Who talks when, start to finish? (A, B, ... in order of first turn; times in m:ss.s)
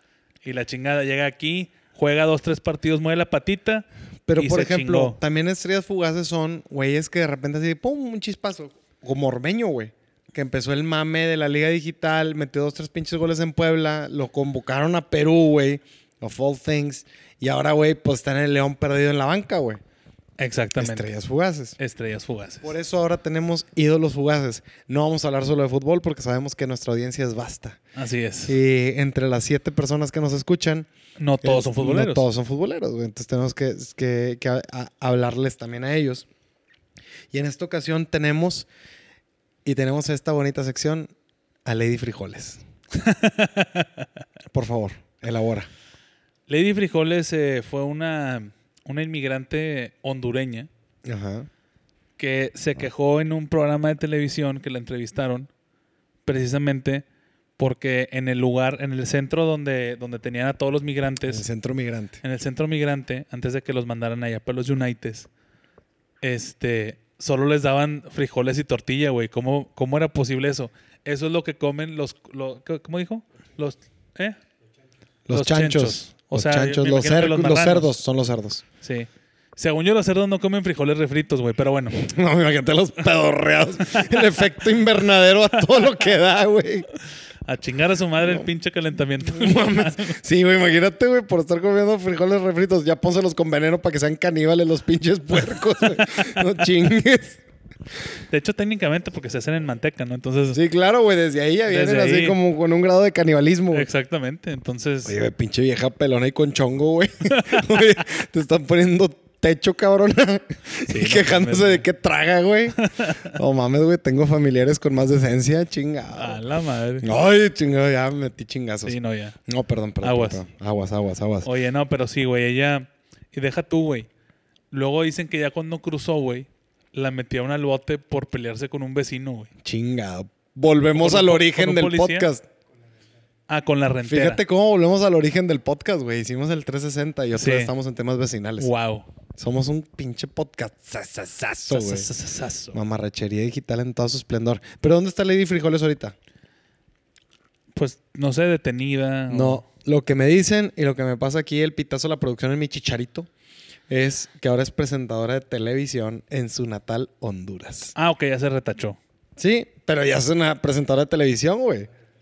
0:00.4-0:05.2 A
0:04.3-0:19.8 B
0:20.4-0:21.1 A
0:20.8-0:21.8 B
0:21.8-0:22.7 A
0:22.6-0:27.8 B
0:28.0-0:28.6 A
0:28.5-0:30.9 B
0:31.2-0:32.3 A
0:31.4-0:36.3 B
0:37.3-0:38.7 B
0:39.6-0:41.1 B
0:41.6-0:42.6 B
0:43.0-0:44.1 A
0:44.5-0:45.7 B
0:46.5-0:50.7 A
0:51.0-0:51.5 B
0:52.2-0:55.5 A
0:56.3-0:57.0 A
0:57.6-1:01.4 A
1:01.3-1:02.2 B
1:02.2-1:05.3 A
1:06.2-1:14.4 A
1:15.3-1:18.6 B
1:15.3-1:17.9 A
1:18.8-1:22.0 A
1:21.9-1:26.9 B
1:27.4-1:30.2 A
1:28.2-1:28.5 B
1:29.2-1:37.4 B
1:36.0-1:36.4 A
1:38.3-1:40.6 A
1:40.5-1:43.9 B
1:41.7-1:42.4 A
1:43.7-1:45.2 A
1:45.1-1:56.4 B
1:47.3-1:47.7 A
1:50.9-1:51.8 A
1:52.8-1:53.4 A
1:56.1-1:57.1 A
1:57.0-1:59.0 B
1:58.8-1:59.4 A
1:59.5-2:01.5 B
2:00.0-2:00.4 A
2:01.4-2:04.1 A
2:04.7-2:09.5 A
2:09.6-2:12.4 B
2:11.0-2:12.3 A
2:13.5-2:14.4 A
2:14.1-2:18.7 B
2:17.4-2:17.7 A
2:18.6-2:19.1 A
2:19.4-2:22.1 B
2:21.7-2:22.8 A
2:22.7-2:26.2 B
2:27.8-2:29.6 A
2:29.3-2:33.3 B
2:33.9-2:37.9 B
2:38.0-2:39.0 A
2:39.4-2:41.9 B